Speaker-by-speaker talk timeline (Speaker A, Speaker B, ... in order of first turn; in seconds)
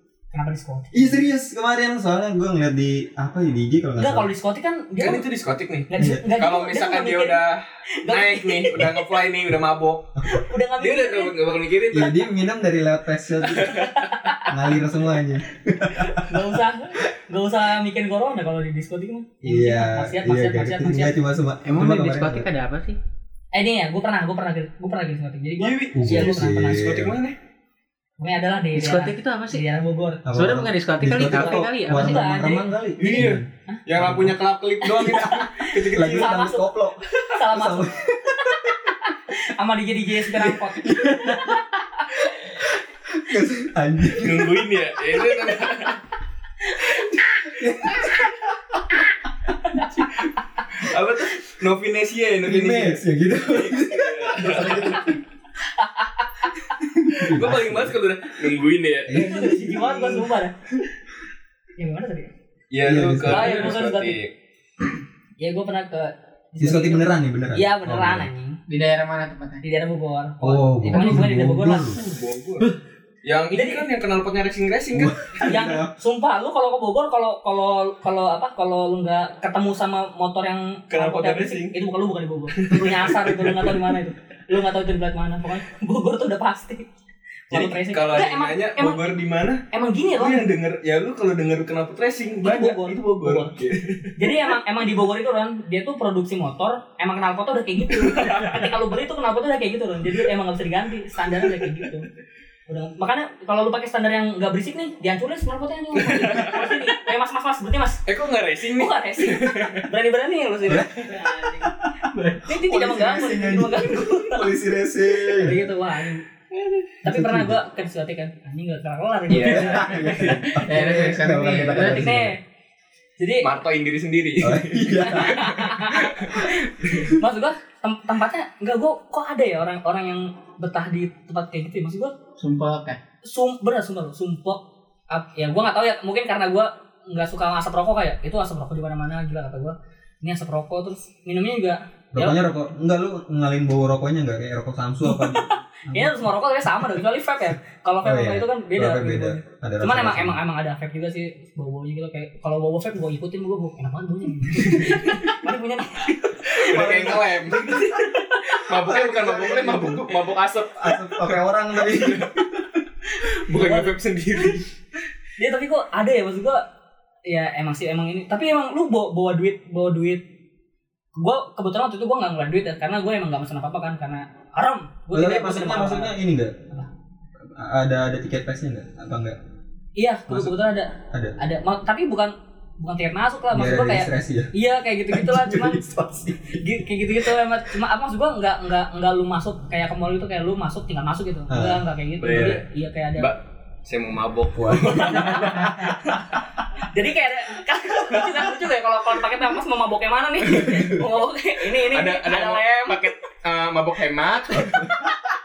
Speaker A: 0.3-1.2, 4.0-5.2, 5.9-7.4, 7.9-9.2, 10.3-11.3, 13.7-14.5, 15.9-21.2, 23.5-27.0, 28.2-30.2, 31.1-33.8, 34.8-36.7, 37.3-42.1, 46.7-47.0, 49.6-50.0, 55.7-56.6, 59.1-60.5, 61.8-62.3, 63.3-64.2, 65.4-68.6, 69.6-72.0, 73.5-73.8, 75.4-86.8, 87.5-89.1, 89.7-90.5, 92.4-93.5, 94.2-102.0, 102.7-108.0, 108.7-111.8, 112.4-114.5, 115.1-116.2, 117.0-120.1, 121.7-122.4, 123.2-123.5, 125.0-132.1, 133.2-142.4, 145.0-158.7, 163.2-164.6, 165.4-166.6, 167.2-170.2, 171.1-176.1, 180.0-185.8, 186.6-193.3, 194.9-203.1
Speaker B: 0.9-4.3, 6.0-6.3, 10.2-10.4, 11.9-13.8, 14.5-16.5, 19.4-22.4, 25.9-27.1, 30.2-34.4, 35.9-38.7, 40.3-41.6, 42.8-44.6, 47.5-48.4, 52.4-55.2, 56.9-58.0, 59.1-60.2, 62.8-63.8, 66.6-68.3, 70.4-72.0, 74.9-75.9, 110.7-111.9, 112.5-115.7, 117.0-117.6, 119.3-122.3, 124.4-125.6, 142.1-146.3, 148.0-150.4, 156.7-157.8, 158.7-160.2, 160.8-162.4, 175.1-176.5, 177.4-179.4, 180.3-180.5, 181.1-181.3, 183.5-184.5, 185.1-186.6, 191.5-191.8, 194.5-195.7, 204.6-205.1
Speaker C: 5.0-10.2, 10.8-12.3, 13.4-14.3, 25.6-27.4, 33.0-36.4, 44.1-46.0, 47.5-48.0, 50.0-55.1, 57.1-59.5, 62.7-64.3, 71.9-72.7, 73.2-75.4, 80.9-81.8, 82.5-83.7, 87.5-89.6, 90.2-94.5, 98.0-98.7, 105.9-106.9, 108.1-109.9, 119.3-120.6, 123.4-127.1, 156.5-157.9, 158.5-161.2, 161.8-162.6, 163.2-164.7, 192.2-192.7, 193.2-195.9, 200.4-201.0, 201.7-204.9
Speaker D: 21.6-23.0, 28.7-29.6, 30.3-32.6, 68.7-69.6, 70.9-71.3, 112.0-112.5, 120.3-122.1, 132.4-133.0